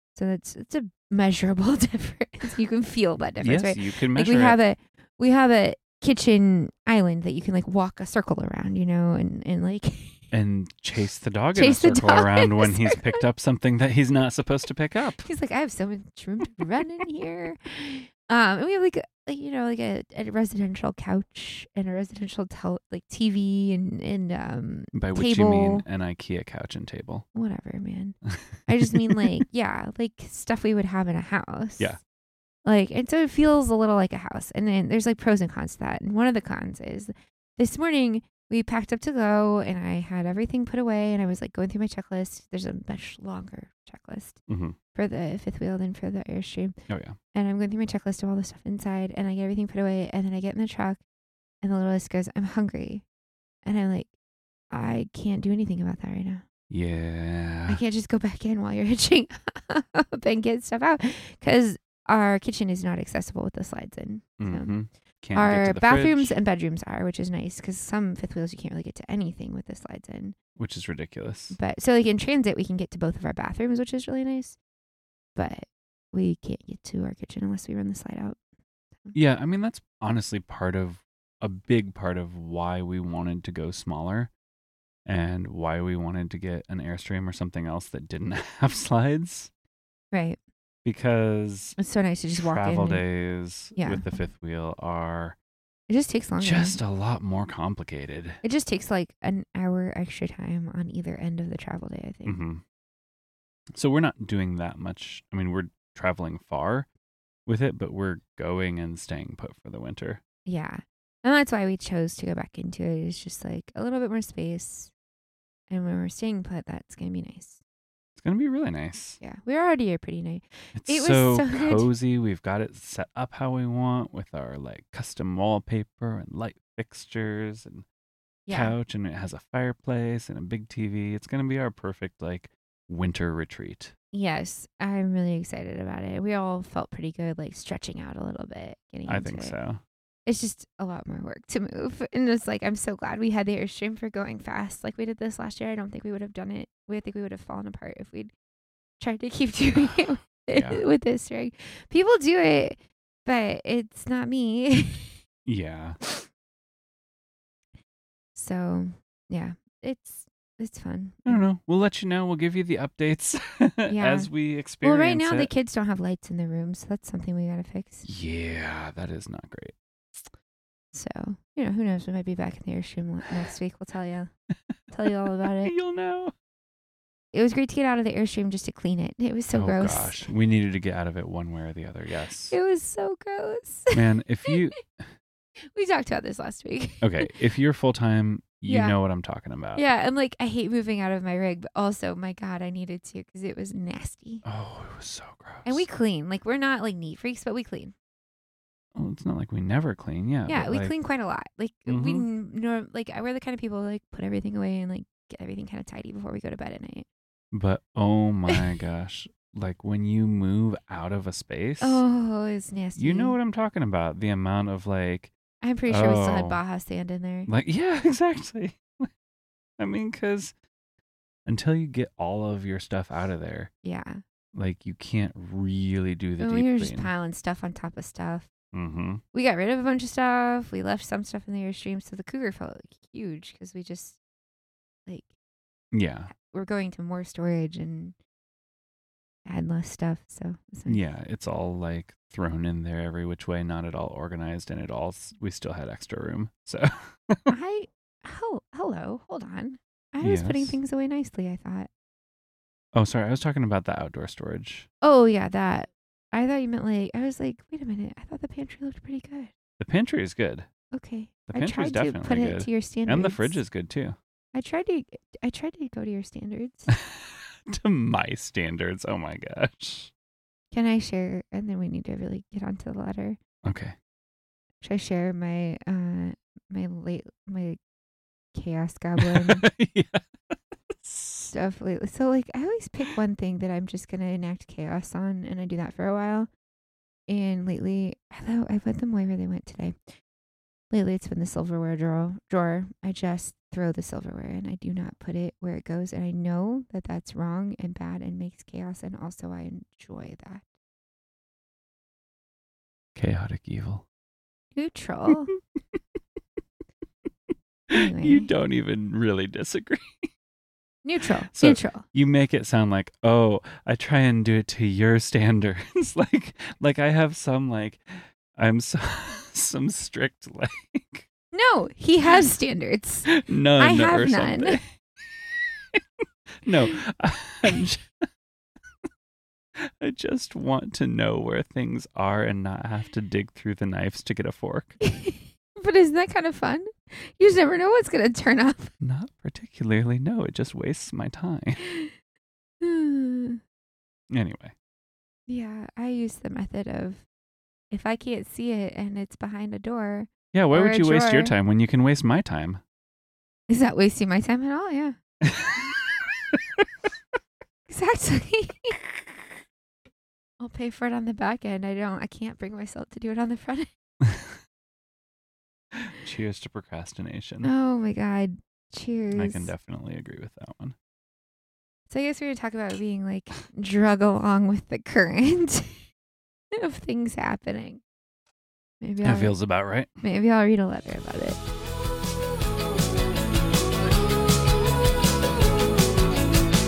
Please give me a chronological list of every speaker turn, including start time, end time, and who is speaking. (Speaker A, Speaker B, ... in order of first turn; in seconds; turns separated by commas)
Speaker A: 0.1-10.3, Speaker B: 3.4-4.6, Speaker B: 10.3-15.2, Speaker A: 11.5-13.2, Speaker A: 15.2-25.8, Speaker B: 24.9-27.2, Speaker A: 27.3-32.0, Speaker A: 32.6-44.4, Speaker B: 44.5-44.8, Speaker A: 44.9-46.7, Speaker B: 46.9-47.2, Speaker A: 47.3-51.0, Speaker A: 51.6-53.0, Speaker A: 53.6-54.1, Speaker A: 54.7-56.4, Speaker B: 56.7-57.8, Speaker A: 57.7-64.8, Speaker B: 64.4-66.4, Speaker A: 65.3-70.3, Speaker B: 70.5-71.6, Speaker A: 71.5-74.6, Speaker A: 75.3-78.4, Speaker B: 79.1-84.3, Speaker B: 85.0-89.5, Speaker A: 90.1-90.4, Speaker B: 90.8-91.8, Speaker A: 91.8-93.0, Speaker B: 92.4-95.3, Speaker A: 93.8-94.0, Speaker A: 95.9-96.8, Speaker B: 96.4-98.4, Speaker A: 98.4-102.4, Speaker B: 102.2-102.6, Speaker B: 103.7-106.9, Speaker B: 107.5-110.2, Speaker A: 110.5-114.9, Speaker A: 115.7-117.6, Speaker B: 118.2-119.2, Speaker A: 119.2-121.9, Speaker B: 120.7-127.8, Speaker A: 128.4-128.8, Speaker B: 128.5-133.9, Speaker A: 134.1-139.6, Speaker B: 139.1-139.8, Speaker A: 140.2-148.3, Speaker A: 149.0-155.2, Speaker B: 150.5-150.8, Speaker B: 155.4-156.0, Speaker A: 158.3-161.4, Speaker B: 161.2-165.5, Speaker A: 163.9-168.1, Speaker B: 168.0-170.2, Speaker A: 170.9-174.3, Speaker A: 174.9-175.7, Speaker B: 175.1-176.3, Speaker A: 177.3-180.3, Speaker B: 179.5-182.6, Speaker A: 182.5-183.9, Speaker B: 183.9-185.1, Speaker A: 185.7-187.3, Speaker B: 187.0-189.8, Speaker A: 188.7-189.0, Speaker A: 189.7-194.4, Speaker B: 194.4-195.8, Speaker A: 195.6-197.9, Speaker B: 198.9-200.9, Speaker A: 200.5-207.1, Speaker B: 201.9-202.3, Speaker B: 207.5-212.0, Speaker A: 211.8-213.4, Speaker B: 212.9-215.3, Speaker A: 215.6-217.5, Speaker B: 215.9-216.6, Speaker B: 217.5-219.1, Speaker B: 219.8-220.5, Speaker B: 221.4-223.7, Speaker A: 223.8-224.2, Speaker B: 224.5-227.1, Speaker A: 226.4-228.5, Speaker B: 228.7-229.2, Speaker A: 229.3-234.2, Speaker B: 235.9-236.3, Speaker A: 236.3-238.2, Speaker A: 239.4-241.0, Speaker B: 240.8-247.5, Speaker A: 247.5-251.9, Speaker B: 250.2-250.8, Speaker B: 252.9-254.9, Speaker A: 255.0-259.5, Speaker B: 259.8-260.7, Speaker A: 260.9-263.6, Speaker B: 261.5-264.2, Speaker A: 264.5-266.9, Speaker B: 266.9-270.1, Speaker A: 270.7-273.4, Speaker B: 273.6-273.9, Speaker A: 274.8-277.8, Speaker A: 278.5-279.7, Speaker B: 279.2-281.5, Speaker A: 281.5-286.5, Speaker A: 287.3-290.0, Speaker A: 290.9-300.6, Speaker B: 303.1-304.0, Speaker A: 304.7-305.5, Speaker B: 307.9-310.3, Speaker A: 307.9-308.5, Speaker A: 311.0-312.0, Speaker B: 311.5-321.2, Speaker A: 321.5-324.8, Speaker B: 323.3-326.0, Speaker B: 326.6-328.1, Speaker B: 329.8-335.0, Speaker A: 335.0-338.9, Speaker B: 339.0-341.8, Speaker A: 341.8-342.1, Speaker A: 342.8-343.6, Speaker B: 344.3-344.7, Speaker A: 345.5-347.2, Speaker A: 347.9-351.5, Speaker B: 350.5-352.8, Speaker A: 353.7-355.2, Speaker B: 355.4-356.9, Speaker A: 357.9-358.9, Speaker A: 360.6-363.9, Speaker B: 364.2-364.6, Speaker B: 365.9-367.7, Speaker A: 367.6-369.7, Speaker B: 369.3-370.9, Speaker A: 372.1-376.0, Speaker A: 376.8-378.0, Speaker A: 379.0-379.6, Speaker B: 379.2-380.1, Speaker A: 380.2-381.6